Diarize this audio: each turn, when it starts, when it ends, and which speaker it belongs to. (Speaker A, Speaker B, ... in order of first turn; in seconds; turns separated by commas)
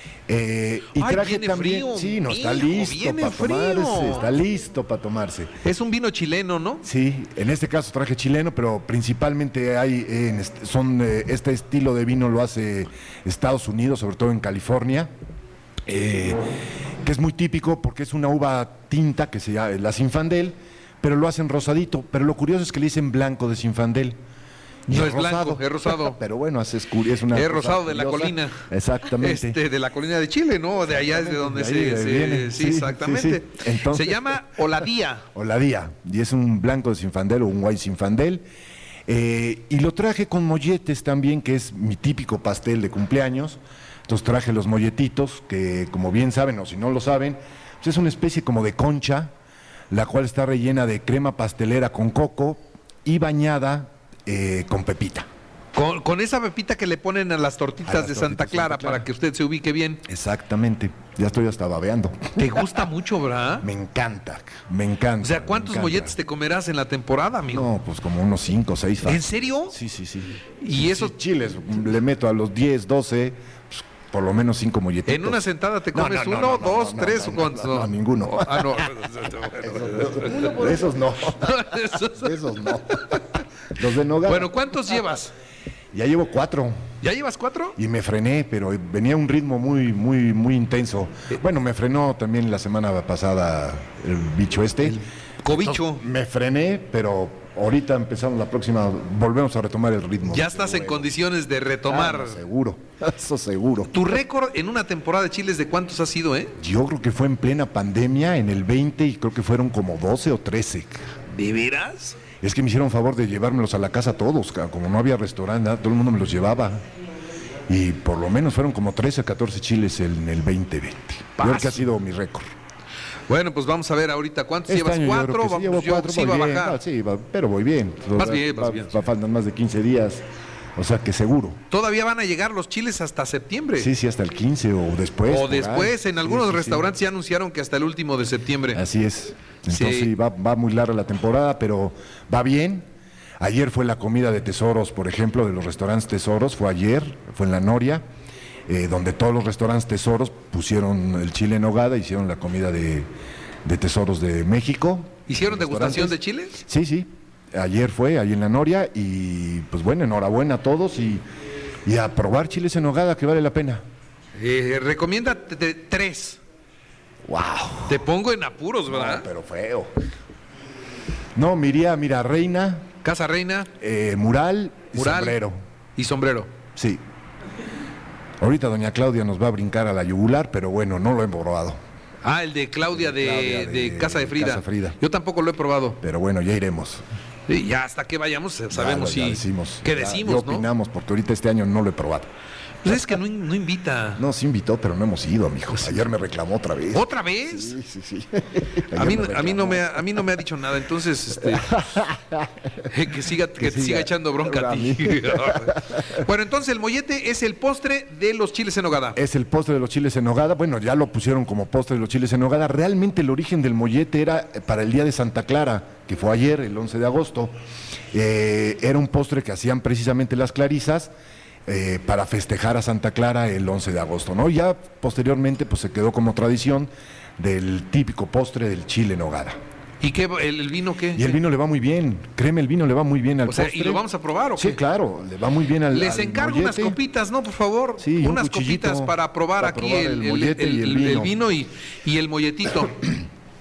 Speaker A: 0.3-5.5, Speaker B: 0.9-4.3, Speaker B: 5.6-6.9, Speaker A: 6.8-15.1, Speaker A: 15.8-16.4, Speaker A: 17.0-24.2, Speaker B: 24.9-26.2, Speaker A: 24.9-29.6, Speaker B: 27.3-35.2, Speaker A: 31.0-34.4, Speaker A: 35.3-38.4, Speaker A: 39.1-49.3, Speaker A: 49.9-55.3, Speaker B: 55.7-60.0, Speaker A: 57.8-59.1, Speaker A: 60.0-62.8, Speaker B: 62.4-63.7, Speaker A: 63.6-66.2, Speaker B: 65.2-67.7, Speaker A: 67.5-75.4, Speaker B: 69.0-69.8, Speaker B: 70.6-71.1, Speaker B: 75.0-83.4, Speaker A: 75.9-78.8, Speaker A: 79.6-83.2, Speaker A: 83.7-84.5, Speaker B: 84.2-85.3, Speaker A: 85.9-86.7, Speaker B: 87.0-87.8, Speaker A: 87.8-101.2, Speaker B: 95.4-96.0, Speaker B: 100.2-102.4, Speaker A: 101.9-104.1, Speaker B: 103.9-106.6, Speaker A: 106.6-111.1, Speaker B: 111.3-112.2, Speaker A: 112.4-116.8, Speaker A: 117.7-122.5, Speaker B: 121.4-121.8, Speaker B: 123.3-126.8, Speaker A: 124.7-130.2, Speaker B: 128.1-129.1, Speaker A: 130.7-131.6, Speaker B: 131.7-133.9, Speaker A: 133.8-136.9, Speaker B: 135.3-138.8, Speaker A: 138.7-142.9, Speaker B: 139.7-140.1, Speaker A: 143.4-148.0, Speaker A: 148.7-153.1, Speaker A: 153.6-161.2, Speaker B: 155.3-156.6, Speaker A: 161.8-163.8, Speaker B: 164.3-166.4, Speaker A: 167.2-168.0, Speaker B: 167.9-169.3, Speaker A: 168.9-169.9, Speaker A: 171.3-172.9, Speaker B: 173.0-173.7, Speaker A: 173.8-175.6, Speaker B: 174.9-175.4, Speaker B: 175.9-176.5, Speaker A: 176.8-177.0, Speaker A: 178.4-181.8, Speaker B: 182.2-186.0, Speaker A: 182.9-185.0, Speaker A: 186.0-187.0, Speaker B: 187.5-190.7, Speaker A: 188.7-192.3, Speaker B: 192.8-194.2, Speaker A: 194.2-200.0, Speaker B: 195.7-196.0, Speaker B: 196.9-197.8, Speaker B: 198.9-201.8, Speaker A: 201.5-202.6, Speaker B: 202.8-209.2, Speaker A: 203.6-206.2, Speaker A: 209.1-217.5, Speaker A: 218.1-221.1, Speaker A: 221.7-229.6, Speaker B: 230.0-231.4, Speaker A: 231.1-234.0, Speaker B: 233.4-234.8, Speaker A: 234.5-237.0, Speaker B: 235.9-243.2, Speaker A: 238.0-241.3